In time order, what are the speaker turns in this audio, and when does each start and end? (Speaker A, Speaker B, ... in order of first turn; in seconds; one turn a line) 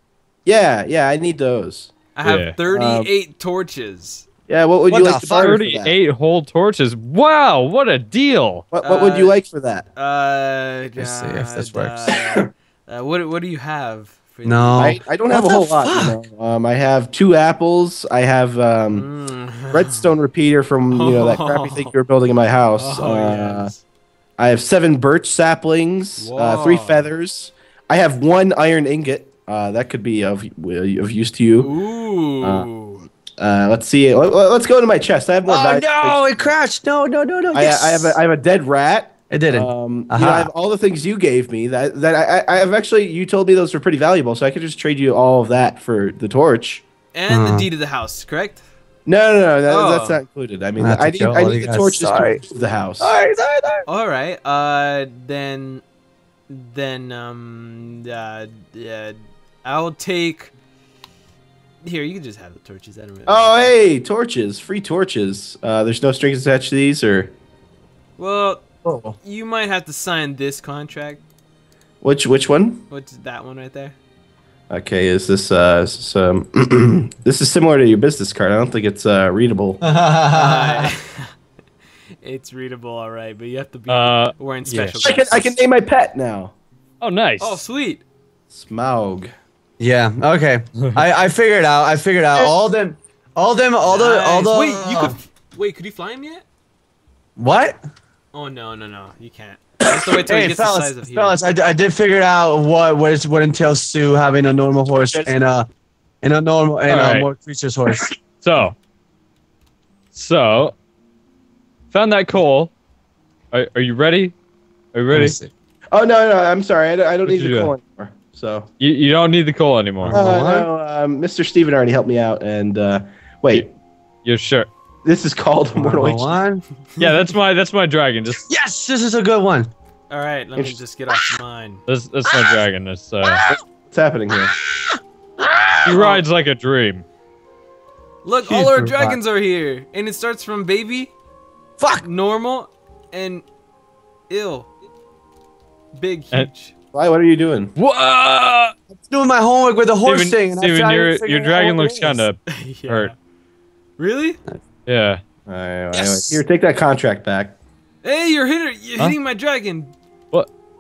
Speaker A: 0.5-1.9
Speaker B: 2.1-4.3
Speaker C: 2.2-2.5
Speaker A: 2.7-3.1
Speaker A: 4.5-6.0
Speaker D: 4.9-5.6
Speaker C: 5.3-8.7
Speaker A: 8.7-9.9
Speaker B: 8.8-9.4
Speaker B: 10.0-15.0
Speaker D: 11.0-12.1
Speaker D: 14.4-16.2
Speaker A: 14.8-19.1
Speaker B: 18.9-20.1
Speaker A: 19.7-23.7
Speaker B: 20.9-21.9
Speaker B: 22.8-23.8
Speaker A: 24.4-31.7
Speaker B: 26.2-27.1
Speaker B: 31.6-33.1
Speaker A: 32.4-32.7
Speaker A: 33.4-36.5
Speaker D: 35.5-38.2
Speaker A: 37.5-46.8
Speaker D: 39.3-40.5
Speaker B: 47.1-48.6
Speaker D: 47.3-47.7
Speaker A: 49.1-53.1
Speaker B: 49.7-50.2
Speaker D: 50.8-52.4
Speaker D: 53.0-53.8
Speaker B: 53.9-55.8
Speaker B: 56.5-60.5
Speaker B: 61.8-63.7
Speaker A: 63.3-67.3
Speaker B: 68.2-68.7
Speaker D: 68.8-69.2
Speaker B: 69.2-71.2
Speaker A: 72.0-72.8
Speaker B: 72.9-74.0
Speaker A: 74.7-79.8
Speaker D: 79.8-80.9
Speaker B: 80.3-81.3
Speaker B: 82.2-85.6
Speaker C: 83.9-85.1
Speaker A: 85.0-86.5
Speaker C: 87.0-87.7
Speaker B: 87.4-88.0
Speaker A: 88.5-89.3
Speaker D: 89.8-95.2
Speaker B: 93.8-96.5
Speaker D: 97.4-97.8
Speaker B: 98.3-101.4
Speaker D: 100.1-105.7
Speaker A: 105.0-105.4
Speaker D: 106.2-108.1
Speaker C: 106.9-107.3
Speaker C: 108.4-108.8
Speaker C: 110.1-110.7
Speaker C: 111.9-112.7
Speaker C: 113.5-114.3
Speaker C: 114.9-115.4
Speaker D: 115.1-115.5
Speaker A: 115.9-118.7
Speaker C: 117.3-117.7
Speaker C: 118.8-120.2
Speaker D: 120.0-120.7
Speaker A: 120.1-123.7
Speaker C: 124.2-124.7
Speaker A: 125.0-126.4
Speaker D: 125.8-126.6
Speaker C: 127.0-128.4
Speaker D: 128.5-129.7
Speaker B: 130.1-131.8
Speaker C: 131.9-133.4
Speaker D: 132.3-132.6
Speaker D: 133.2-133.6
Speaker A: 133.5-134.6
Speaker D: 134.3-136.0
Speaker C: 135.8-137.0
Speaker B: 135.9-136.3
Speaker B: 138.2-141.1
Speaker D: 138.4-139.2
Speaker D: 141.8-142.1
Speaker B: 142.0-143.4
Speaker B: 144.3-144.7
Speaker B: 145.9-146.7
Speaker A: 146.9-147.7
Speaker C: 147.8-148.7
Speaker D: 148.9-152.3
Speaker C: 150.0-153.1
Speaker B: 152.5-153.2
Speaker B: 154.0-154.4
Speaker C: 154.9-155.2
Speaker A: 155.5-157.6
Speaker D: 155.9-156.4
Speaker B: 158.0-159.9